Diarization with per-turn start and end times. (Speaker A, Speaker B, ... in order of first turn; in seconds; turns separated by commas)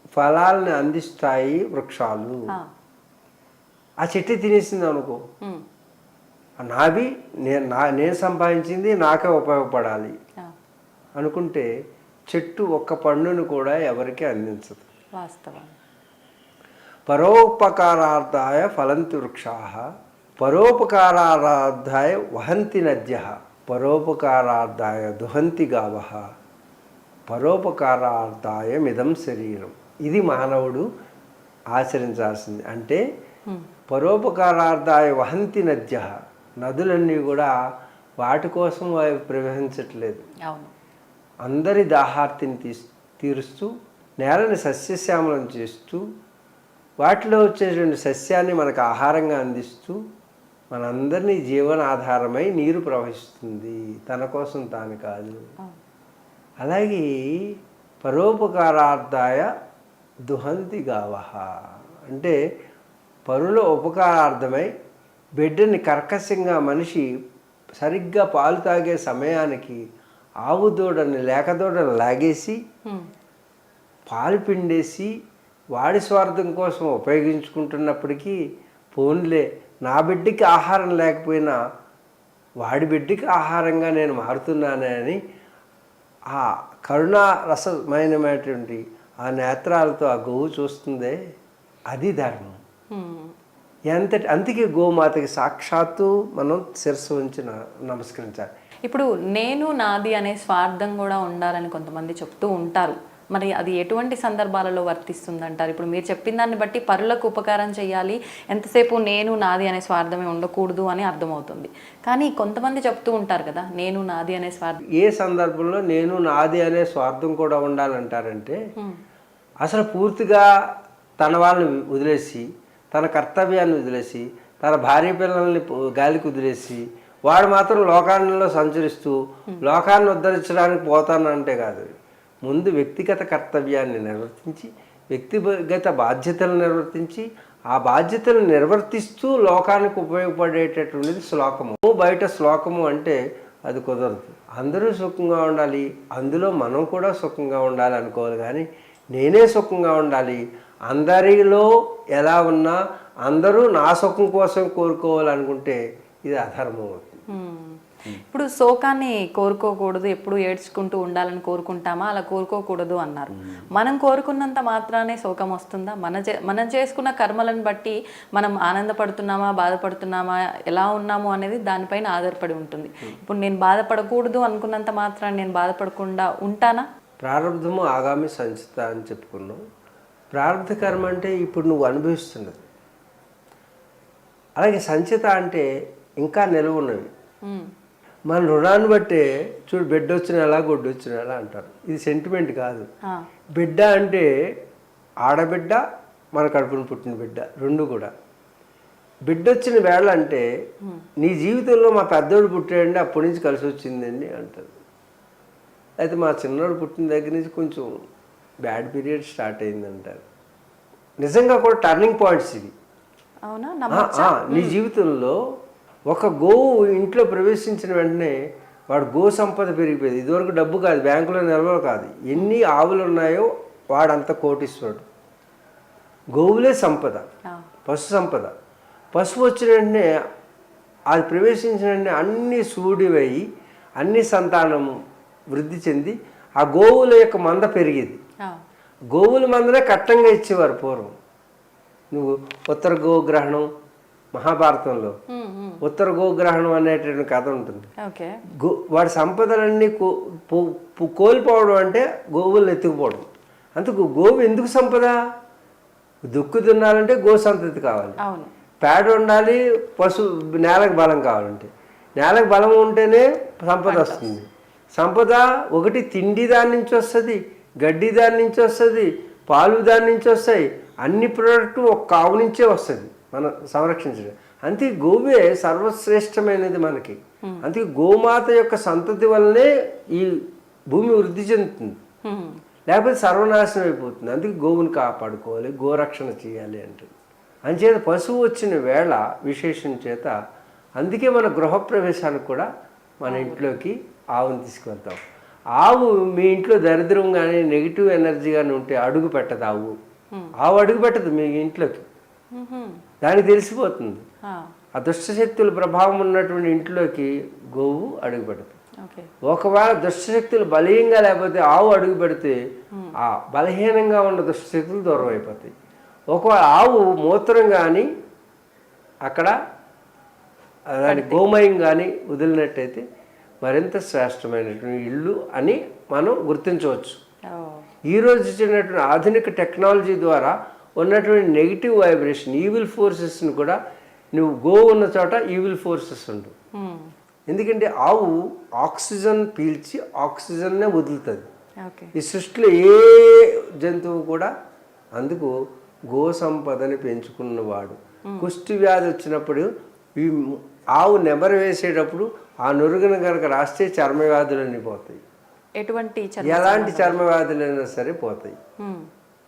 Speaker A: 0.2-2.5, Speaker A: 4.0-5.2, Speaker A: 6.6-10.2, Speaker A: 11.2-11.7, Speaker A: 12.3-14.8, Speaker B: 15.2-15.8, Speaker A: 17.1-19.9, Speaker A: 20.4-26.2, Speaker A: 27.3-30.9, Speaker A: 31.7-33.0, Speaker A: 33.9-37.5, Speaker A: 38.2-40.2, Speaker B: 40.5-40.7, Speaker A: 41.4-43.7, Speaker A: 44.2-46.0, Speaker A: 47.0-50.0, Speaker A: 50.7-55.4, Speaker A: 56.6-59.5, Speaker A: 60.3-61.5, Speaker A: 62.1-62.4, Speaker A: 63.3-64.7, Speaker A: 65.4-67.1, Speaker A: 67.8-69.8, Speaker A: 70.5-72.6, Speaker A: 74.1-75.1, Speaker A: 75.8-78.4, Speaker A: 78.9-81.5, Speaker A: 82.6-85.2, Speaker A: 86.3-91.2, Speaker A: 91.9-92.6, Speaker B: 92.9-93.3, Speaker A: 93.9-98.5, Speaker B: 98.9-114.8, Speaker A: 115.0-118.6, Speaker A: 119.6-120.5, Speaker A: 121.2-131.9, Speaker A: 132.4-157.2, Speaker B: 157.3-176.8, Speaker A: 177.2-179.6, Speaker A: 180.3-182.6, Speaker A: 184.6-185.7, Speaker A: 186.2-187.1, Speaker A: 188.3-192.8, Speaker A: 193.6-194.3, Speaker A: 195.2-195.8, Speaker A: 196.3-198.1, Speaker A: 199.3-200.4, Speaker A: 201.2-204.7, Speaker A: 206.0-207.9, Speaker A: 208.6-210.2, Speaker A: 211.2-212.7, Speaker B: 213.5-214.8, Speaker A: 213.9-215.4, Speaker A: 216.1-218.4, Speaker A: 218.9-225.1, Speaker A: 226.3-227.3, Speaker A: 227.9-228.5, Speaker A: 229.1-230.1, Speaker A: 231.1-233.4, Speaker A: 234.0-234.9, Speaker A: 235.5-238.2, Speaker A: 239.1-241.1, Speaker A: 242.1-243.7, Speaker A: 244.3-245.2, Speaker B: 245.3-245.8, Speaker A: 245.8-247.9, Speaker B: 248.0-248.3, Speaker A: 248.6-255.2, Speaker A: 256.3-258.2, Speaker B: 258.2-258.5, Speaker A: 258.8-282.0, Speaker B: 263.9-264.3, Speaker B: 282.2-282.6, Speaker A: 282.9-287.1, Speaker A: 287.7-290.3, Speaker A: 291.0-292.7, Speaker A: 293.2-295.2, Speaker B: 293.3-293.7, Speaker A: 295.8-299.9, Speaker A: 300.6-302.1, Speaker B: 302.5-303.0, Speaker A: 303.2-304.2, Speaker A: 304.9-308.8, Speaker B: 309.0-309.3, Speaker A: 309.5-312.6, Speaker A: 313.2-315.7, Speaker A: 316.3-318.1, Speaker A: 319.3-319.5, Speaker A: 321.0-323.0, Speaker B: 321.1-321.4, Speaker A: 323.6-327.2, Speaker B: 327.5-327.8, Speaker A: 328.1-333.8, Speaker A: 334.3-336.5, Speaker B: 336.8-337.1, Speaker A: 337.5-341.5, Speaker B: 341.8-342.1, Speaker A: 342.1-344.5, Speaker A: 345.2-345.5, Speaker A: 346.1-355.2, Speaker B: 355.8-357.2, Speaker A: 356.4-358.6, Speaker B: 358.8-359.1